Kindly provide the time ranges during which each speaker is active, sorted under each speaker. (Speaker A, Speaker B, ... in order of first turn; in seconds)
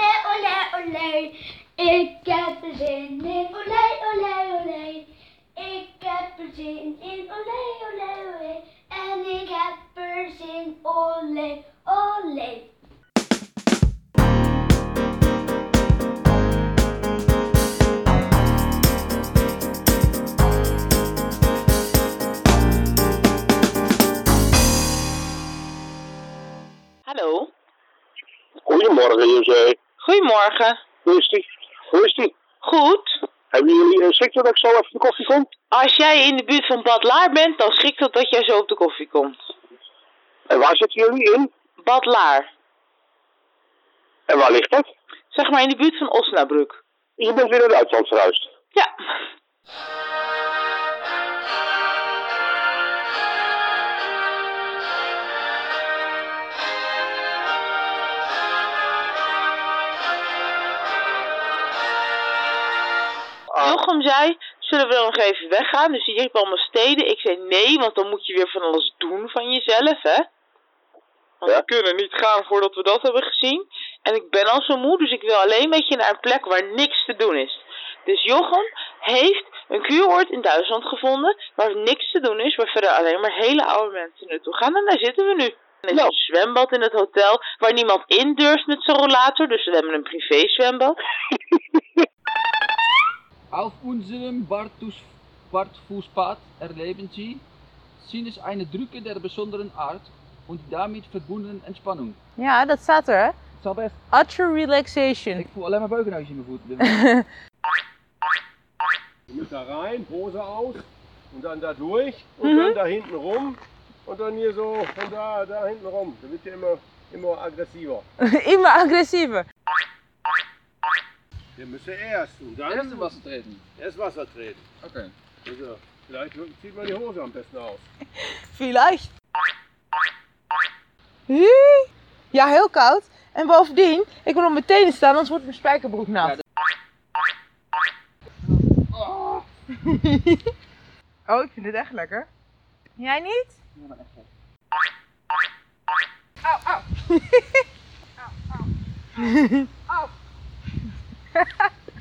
Speaker A: 3.4-4.1, 6.0-6.5, 7.1-7.9, 9.0-12.5
Speaker B: 27.1-27.5, 30.0-30.9, 32.6-33.1, 35.7-39.3, 41.8-42.5, 45.3-46.8, 63.6-70.2, 71.4-91.0
Speaker C: 28.7-29.8, 31.0-32.3, 33.5-35.5, 40.5-41.5, 44.3-44.9, 47.2-48.5
Speaker D: 93.5-97.4, 98.0-102.2, 103.6-103.9, 105.4-106.9, 122.7-123.6, 124.8-125.1, 139.0-139.4, 143.8-144.0
Speaker E: 102.4-103.3, 104.1-105.5, 106.8-107.3, 112.4-112.8, 118.2-119.5, 128.2-129.1, 131.3-136.4, 139.8-140.5, 141.3-142.3, 143.0-143.6, 147.0-147.6, 149.2-149.7, 151.3-151.7
Speaker F: 109.3-118.0, 121.6-123.2, 123.8-124.6, 125.5-127.8